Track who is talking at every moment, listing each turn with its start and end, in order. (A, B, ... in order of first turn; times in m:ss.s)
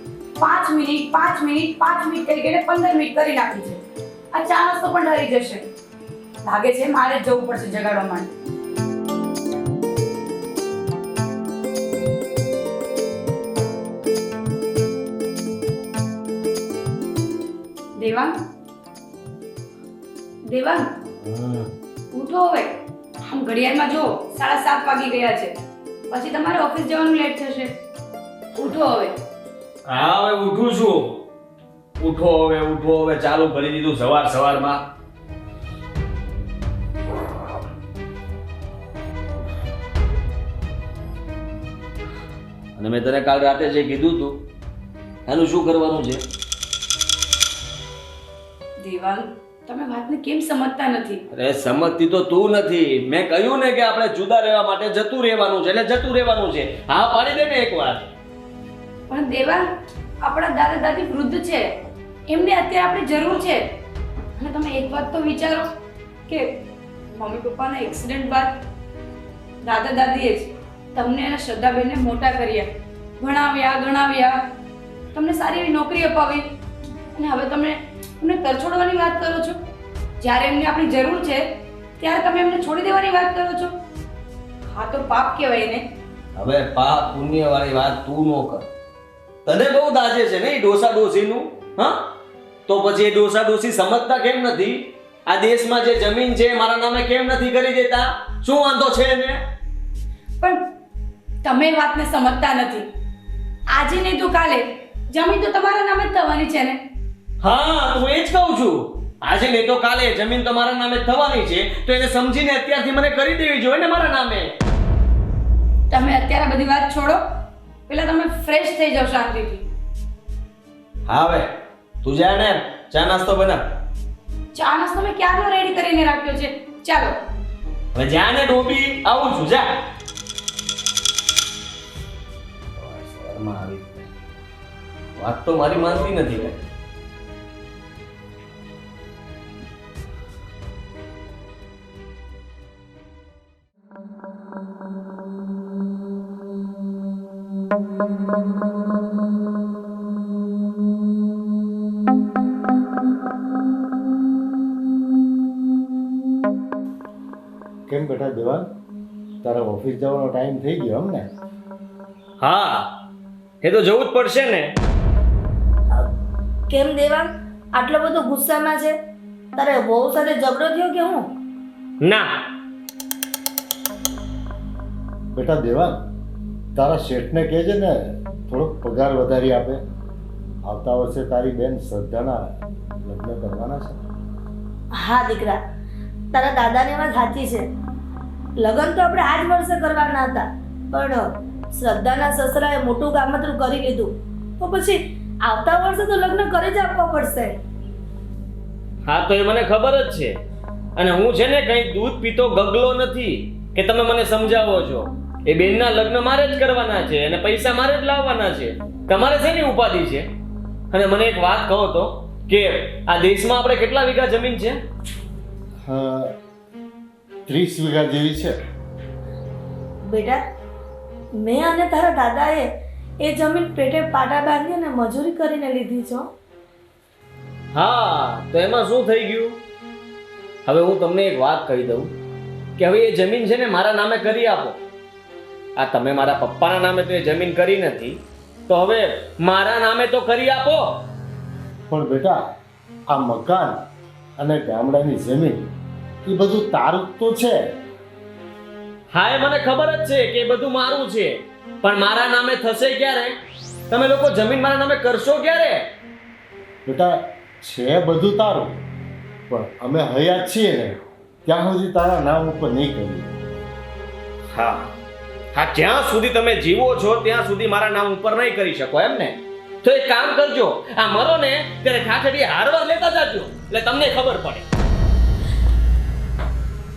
0:00.4-0:05.7 A
0:06.4-0:08.3 A
0:18.0-0:18.4 A
0:20.4-0:20.9 A
0:21.2-0:21.7 B
0:22.1-0:25.5 A
0:26.1-0:27.7 A
0:28.5-0:29.2 A
0:29.8-0:31.2 C
0:32.0-0:34.8 C
0:42.8-0:44.4 C
0:45.3-0:46.2 C
0:48.8-0:51.2 A
0:51.3-0:58.1 C
0:59.1-0:59.7 A
1:00.2-1:03.6 A
1:04.4-1:05.7 A
1:06.3-1:06.6 A
1:07.1-1:08.6 A
1:09.6-1:14.5 A
1:15.1-1:16.5 A
1:17.1-1:19.6 A
1:20.2-1:23.8 A
1:24.7-1:25.9 A
1:26.4-1:28.7 C
1:29.4-1:32.1 C
1:32.7-1:39.4 C
1:41.4-1:42.9 A
1:43.7-1:46.8 A
1:47.4-1:54.5 C
1:55.9-1:57.3 A
1:57.9-1:59.7 A
2:01.1-2:01.5 C
2:02.0-2:03.6 C
2:04.5-2:07.2 A
2:07.9-2:09.8 C
2:12.8-2:14.1 C
2:15.2-2:16.6 C
2:37.9-2:38.7 B
2:39.4-2:41.3 B
2:42.4-2:42.9 C
2:43.6-2:44.7 C
2:46.7-2:49.0 D
2:49.6-2:51.3 D
2:52.0-2:52.3 C
2:55.3-2:56.0 B
2:56.7-2:59.8 B
3:00.6-3:04.0 B
3:04.9-3:05.6 D
3:06.3-3:07.6 D
3:08.6-3:17.6 D
3:19.0-3:20.4 C
3:21.0-3:30.3 C
3:30.9-3:34.8 C
3:35.8-3:36.3 B
3:37.5-3:38.6 B
3:40.0-3:40.4 D
3:41.4-3:42.7 D
3:43.2-3:46.3 D
3:47.7-3:49.6 C
3:50.6-3:52.1 C
3:52.8-3:54.8 C
3:55.8-4:01.0 C
4:01.9-4:02.4 B
4:03.1-4:03.8 B
4:04.4-4:05.7 B
4:06.2-4:07.6 B
4:09.1-4:13.3 C
4:13.9-4:15.8 C
4:16.8-4:18.8 B
4:19.5-4:23.3 B
4:24.5-4:24.9 C
4:25.5-4:34.7 C